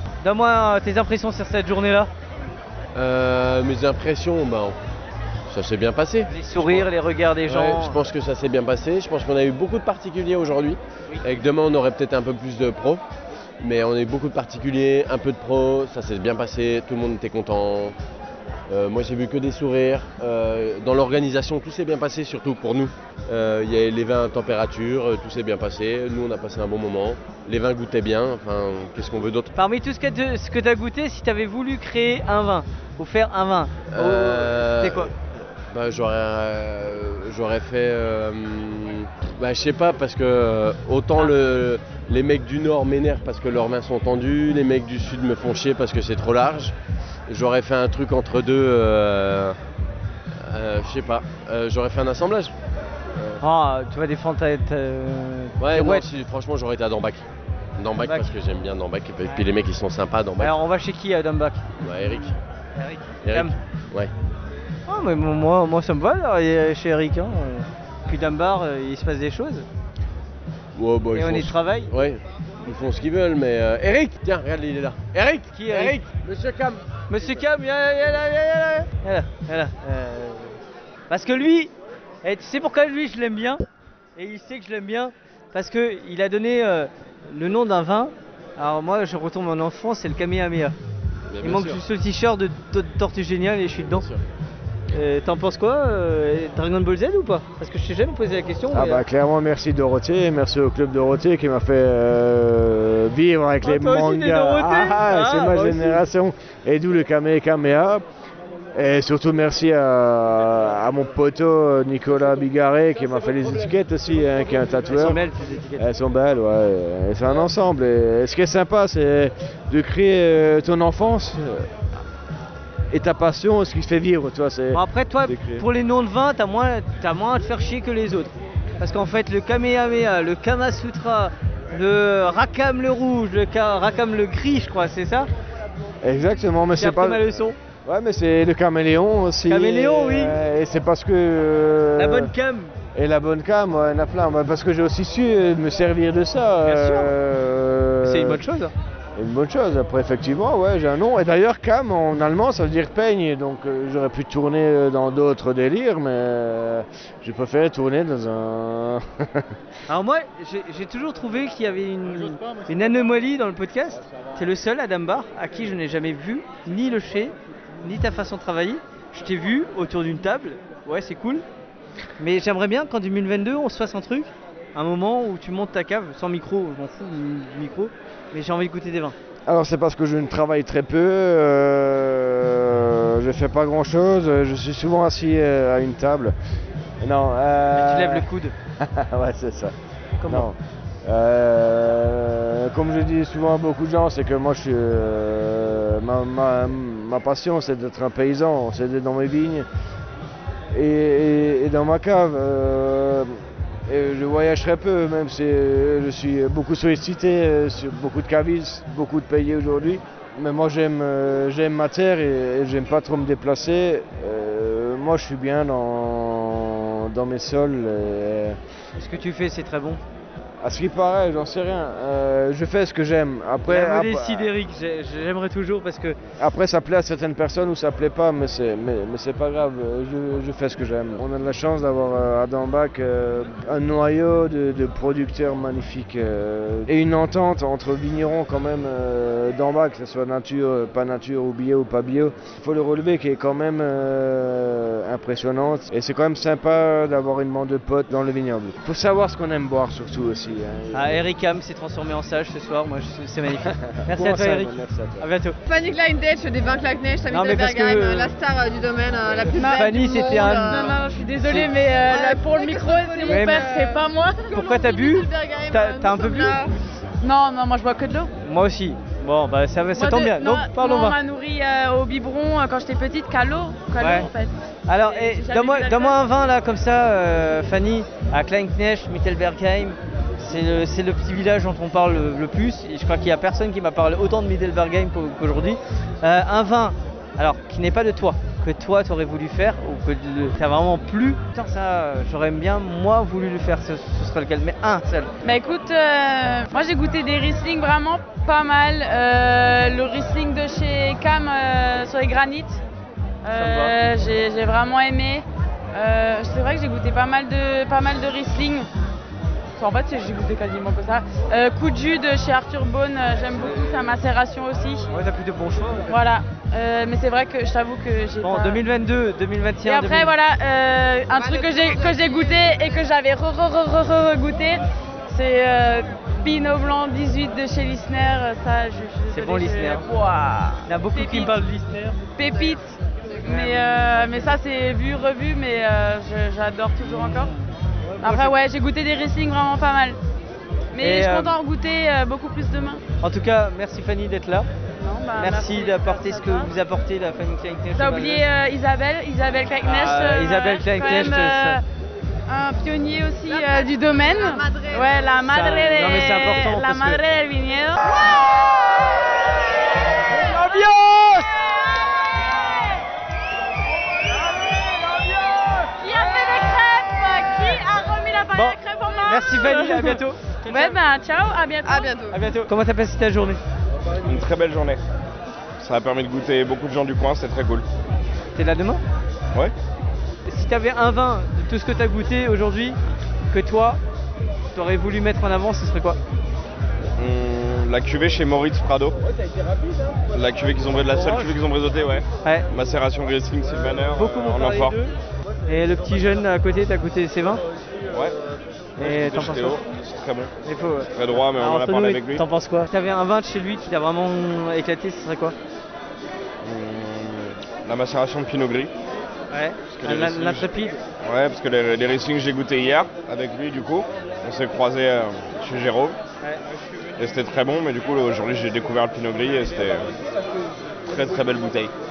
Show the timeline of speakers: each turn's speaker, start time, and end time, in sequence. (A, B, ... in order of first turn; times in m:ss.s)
0:00.2-0:02.1 A
0:02.9-0:04.8 B
0:05.5-0:06.9 B
0:06.3-0:08.0 A
0:07.4-0:13.0 B
0:13.6-0:18.0 B
0:18.7-0:29.5 B
0:29.5-0:35.1 A
0:33.9-0:35.1 B
0:35.7-0:46.7 B
0:47.3-0:49.6 B
0:50.4-0:52.5 B
0:53.4-0:56.0 A
0:55.6-0:57.2 B
0:57.8-1:00.5 B
0:58.0-0:58.3 A
1:00.4-1:03.5 A
1:01.8-1:02.3 B
1:03.2-1:04.1 B
1:04.9-1:09.6 A
1:10.7-1:16.0 B
1:11.1-1:11.9 A
1:15.5-1:16.1 A
1:17.1-1:20.6 A
1:21.1-1:23.6 A
1:24.2-1:30.7 A
1:31.3-1:31.8 B
1:31.4-1:34.0 A
1:34.0-1:34.2 B
1:34.9-1:39.0 A
1:38.7-1:48.0 C
1:43.6-1:46.0 A
1:48.7-1:55.2 C
1:54.9-1:55.9 A
1:55.8-2:01.7 C
2:02.9-2:05.6 C
2:04.7-2:15.3 A
2:16.0-2:17.2 C
2:16.7-2:17.6 A
2:17.8-2:22.3 C
2:19.5-2:20.4 A
2:22.0-2:22.7 A
2:22.9-2:28.4 C
2:26.6-2:27.1 A
2:28.0-2:28.7 A
2:29.2-2:39.0 C
2:39.9-2:51.4 A
2:52.2-2:59.2 A
2:59.5-3:06.3 C
3:07.0-3:08.2 C
3:07.7-3:08.5 A
3:09.1-3:09.7 C
3:10.2-3:10.5 A
3:10.2-3:19.6 C
3:20.7-3:23.3 C
3:23.9-3:38.6 C
3:39.0-3:40.0 A
3:40.6-3:44.5 C
3:43.6-3:46.2 A
3:46.4-4:11.2 C
4:10.9-4:15.6 A
4:14.0-4:15.2 C
4:17.3-4:18.3 A
4:19.4-4:21.7 A
4:19.5-4:25.2 D
4:23.2-4:23.8 A
4:24.5-4:26.6 A
4:26.0-4:26.5 D
4:27.2-4:28.3 D
4:28.4-4:31.2 A
4:29.9-4:36.2 D
4:34.0-4:34.3 A
4:34.9-4:55.3 A
4:55.4-5:02.8 D
5:03.4-5:08.9 D
5:03.5-5:04.0 A
5:09.8-5:15.1 D
5:13.6-5:14.1 A
5:15.1-5:16.2 A
5:16.1-5:18.8 D
5:18.4-5:20.3 A
5:19.8-5:31.6 D
5:29.3-5:30.1 A
5:30.8-5:32.2 A
5:32.4-5:37.5 D
5:33.4-5:33.8 A
5:37.0-5:37.6 A
5:38.1-5:38.6 A
5:38.2-5:40.2 D
5:40.9-5:43.0 D
5:41.0-5:41.6 A
5:43.2-5:44.7 A
5:45.0-5:46.7 D
5:45.4-5:48.5 A
5:47.9-5:51.8 D
5:49.8-5:51.8 A
5:52.5-5:58.2 D
5:55.4-5:57.2 A
6:00.3-6:01.6 A
6:06.0-6:12.3 D
6:08.5-6:11.0 A
6:12.2-6:13.6 A
6:14.2-6:15.0 E
6:15.8-6:17.8 E
6:18.5-6:19.0 A
6:20.5-6:23.0 A
6:23.5-6:24.0 A
6:24.7-6:26.2 A
6:27.2-6:29.1 E
6:30.3-6:35.0 E
6:31.2-6:31.5 A
6:34.1-6:35.1 A
6:35.7-6:37.6 A
6:39.0-6:39.8 A
6:39.0-6:40.5 E
6:40.6-6:45.5 A
6:41.1-6:42.4 E
6:46.6-6:48.9 E
6:49.5-6:51.0 A
6:49.9-6:50.7 E
6:51.2-6:56.2 E
6:57.2-7:00.1 E
7:01.0-7:01.9 E